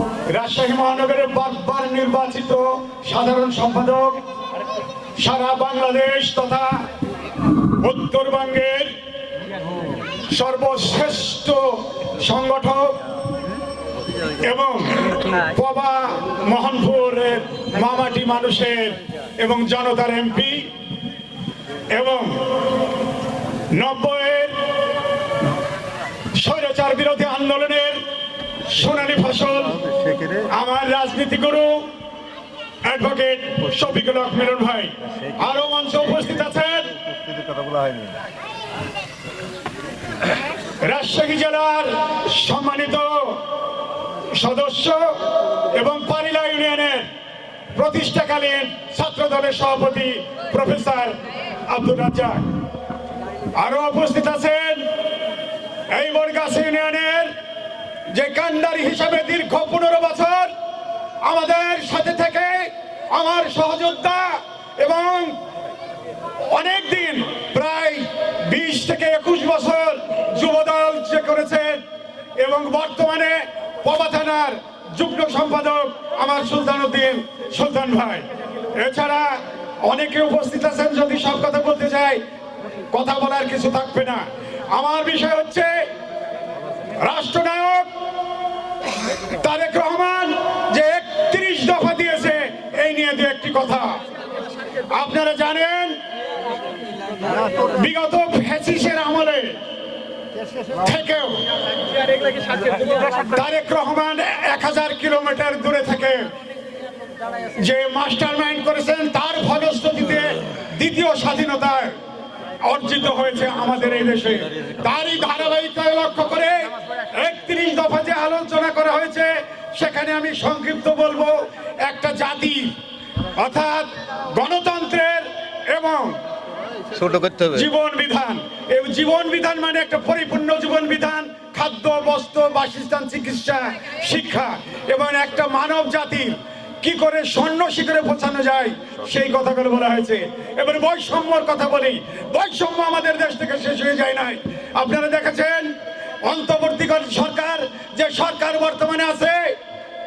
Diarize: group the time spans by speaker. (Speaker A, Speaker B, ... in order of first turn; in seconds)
Speaker A: 0.3-4.2, 5.2-6.7, 7.8-8.9, 10.3-12.9, 14.3-20.7, 21.9-22.9, 23.7-24.6, 26.4-28.0, 28.7-29.8, 30.5-31.9, 32.9-37.0, 40.8-43.5, 44.3-45.2, 45.8-47.1, 47.8-51.2, 51.7-52.5, 53.6-54.9, 55.9-57.3, 58.1-60.5, 61.2-65.4, 66.5-71.8, 72.4-82.2, 82.9-85.9, 87.0-87.9, 89.2-94.0, 94.9-96.0, 97.5-99.6, 100.7-101.4, 102.7-106.3, 107.5-112.0, 112.6-122.7, 123.3-126.2, 127.5-145.7, 146.2-149.6
Speaker B: 29.9-30.4, 37.3-38.1, 102.5-102.9, 126.9-127.7